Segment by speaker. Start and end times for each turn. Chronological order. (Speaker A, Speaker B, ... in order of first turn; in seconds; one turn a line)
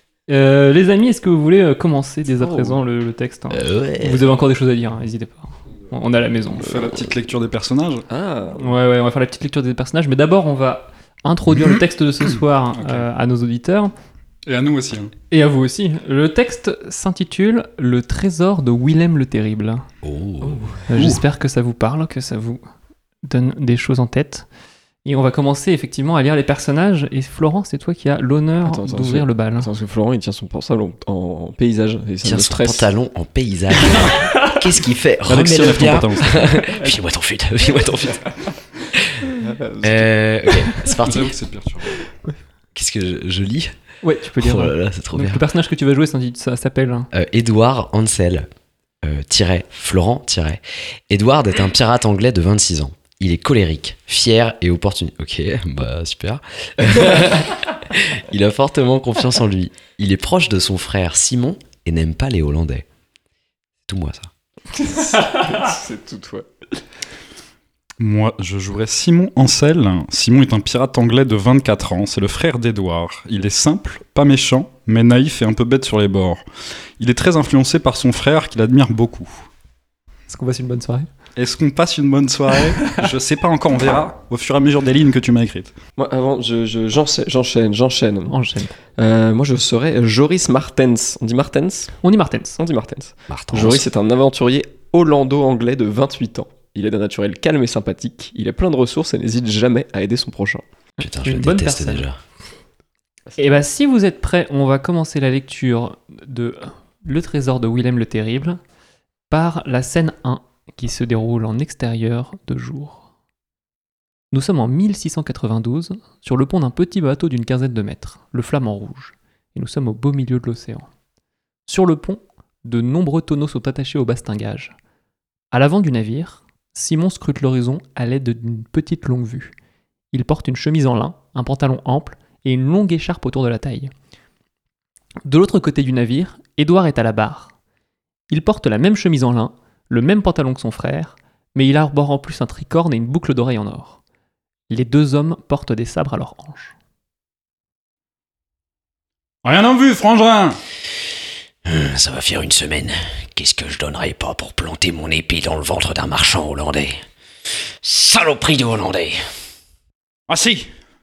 Speaker A: 0.3-6.9
Speaker B: 2.4-2.8
Speaker C: 3.5-4.3
Speaker D: 6.5-8.1
Speaker B: 8.1-8.7
Speaker A: 8.6-13.9
Speaker D: 12.8-13.1
Speaker D: 14.5-15.1
Speaker A: 15.3-19.9
Speaker C: 20.0-20.7
Speaker B: 20.4-20.9
Speaker A: 20.9-22.6
Speaker A: 23.2-24.5
Speaker A: 25.0-29.7
Speaker B: 28.6-32.9
Speaker C: 32.2-38.3
Speaker D: 35.2-36.6
Speaker A: 36.6-36.9
Speaker B: 39.4-40.1
Speaker C: 39.8-41.4
Speaker D: 41.0-42.0
Speaker C: 42.7-43.7
Speaker A: 44.0-47.1
Speaker C: 44.4-45.4
Speaker C: 47.1-48.5
Speaker C: 49.0-62.9
Speaker C: 63.9-64.3
Speaker B: 64.8-66.5
Speaker D: 68.0-76.4
Speaker D: 77.0-79.3
Speaker A: 80.3-81.1
Speaker D: 81.3-85.7
Speaker B: 86.0-88.3
Speaker A: 88.3-88.7
Speaker B: 89.0-92.0
Speaker A: 92.0-92.6
Speaker B: 92.6-100.6
Speaker C: 93.3-93.8
Speaker C: 101.0-102.2
Speaker A: 101.0-102.0
Speaker A: 103.4-108.6
Speaker A: 109.3-113.0
Speaker A: 114.3-120.9
Speaker A: 121.7-124.7
Speaker A: 125.5-129.5
Speaker A: 130.1-133.9
Speaker A: 135.2-137.5
Speaker A: 138.3-144.0
Speaker A: 144.7-146.7
Speaker D: 149.4-150.6
Speaker C: 151.6-157.0
Speaker C: 157.8-159.2
Speaker D: 160.3-160.7